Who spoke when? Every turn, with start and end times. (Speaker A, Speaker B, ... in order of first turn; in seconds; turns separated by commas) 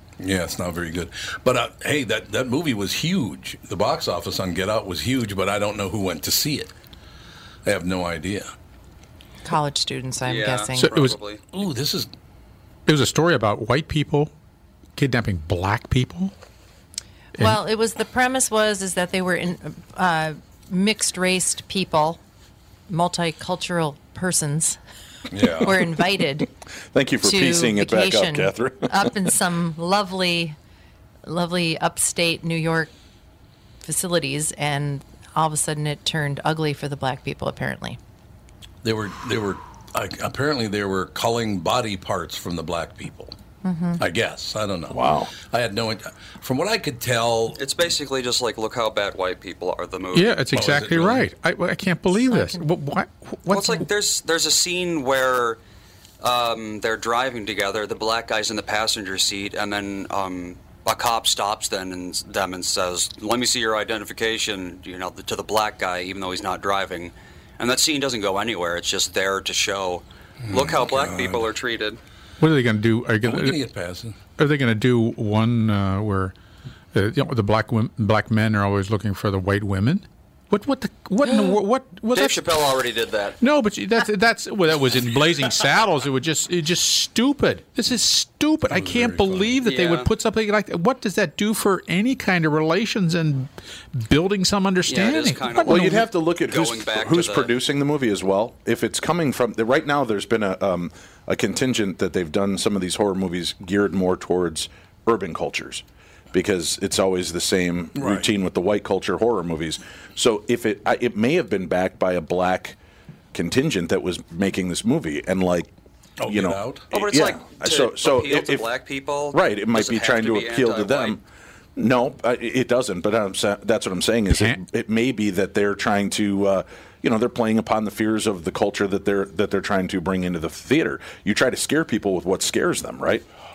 Speaker A: 0.2-6.7, Speaker A: 7.6-8.5, Speaker B: 9.4-10.9, Speaker C: 10.2-11.4, Speaker D: 10.8-11.2, Speaker A: 11.5-12.1, Speaker D: 12.9-14.3, Speaker D: 14.9-16.3, Speaker B: 17.4-22.2, Speaker B: 22.9-24.8, Speaker A: 25.3-25.8, Speaker B: 25.5-26.5, Speaker E: 26.9-29.1, Speaker B: 27.2-30.6, Speaker B: 31.2-32.9, Speaker B: 33.8-38.0, Speaker A: 38.8-43.3, Speaker B: 43.6-44.0, Speaker A: 44.0-47.6, Speaker E: 44.9-45.3, Speaker C: 47.5-50.4, Speaker D: 50.1-53.9, Speaker A: 50.5-51.2, Speaker B: 52.1-52.6, Speaker C: 53.5-55.6, Speaker C: 56.2-72.0, Speaker A: 70.4-71.5, Speaker D: 72.4-73.6, Speaker A: 73.2-74.2, Speaker D: 74.4-76.3, Speaker D: 76.9-82.7, Speaker C: 81.2-81.6, Speaker C: 82.1-83.4, Speaker D: 83.4-96.1, Speaker A: 88.7-89.6, Speaker C: 89.6-90.1, Speaker C: 94.8-97.5, Speaker E: 95.6-112.8, Speaker A: 108.0-108.3, Speaker E: 113.3-115.7, Speaker A: 116.2-116.9, Speaker E: 116.2-118.7, Speaker C: 116.9-121.2, Speaker E: 119.3-121.2, Speaker E: 121.8-133.2, Speaker D: 124.3-124.6